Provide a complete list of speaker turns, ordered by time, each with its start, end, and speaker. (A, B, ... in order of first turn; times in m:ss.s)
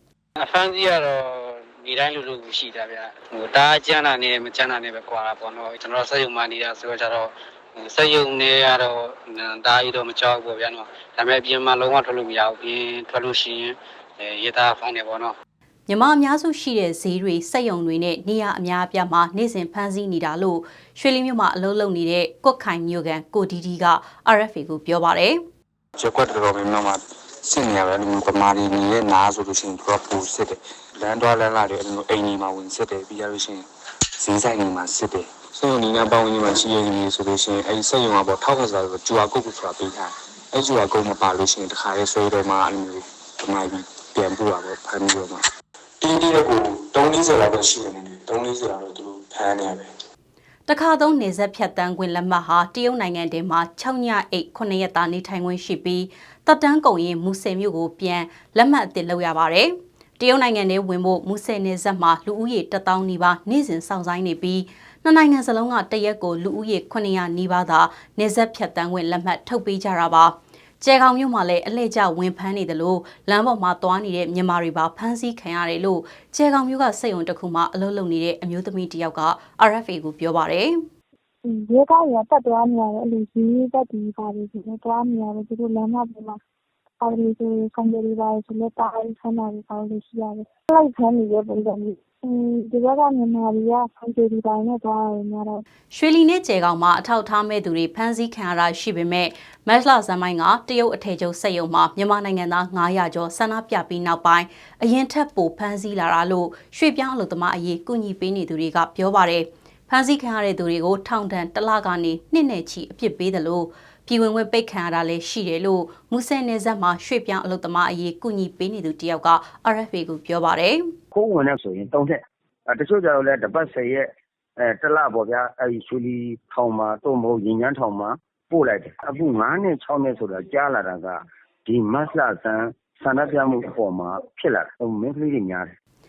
0:00.4-0:15.4 A
0:15.9-0:25.4 B
0:26.0-0:33.6 C
0:34.2-0:45.4 C
0:46.0-0:49.9 C
0:50.7-1:20.8 B
1:21.4-1:26.4 D
1:27.0-1:35.6 D
1:35.9-2:00.9 B
2:01.1-2:15.7 E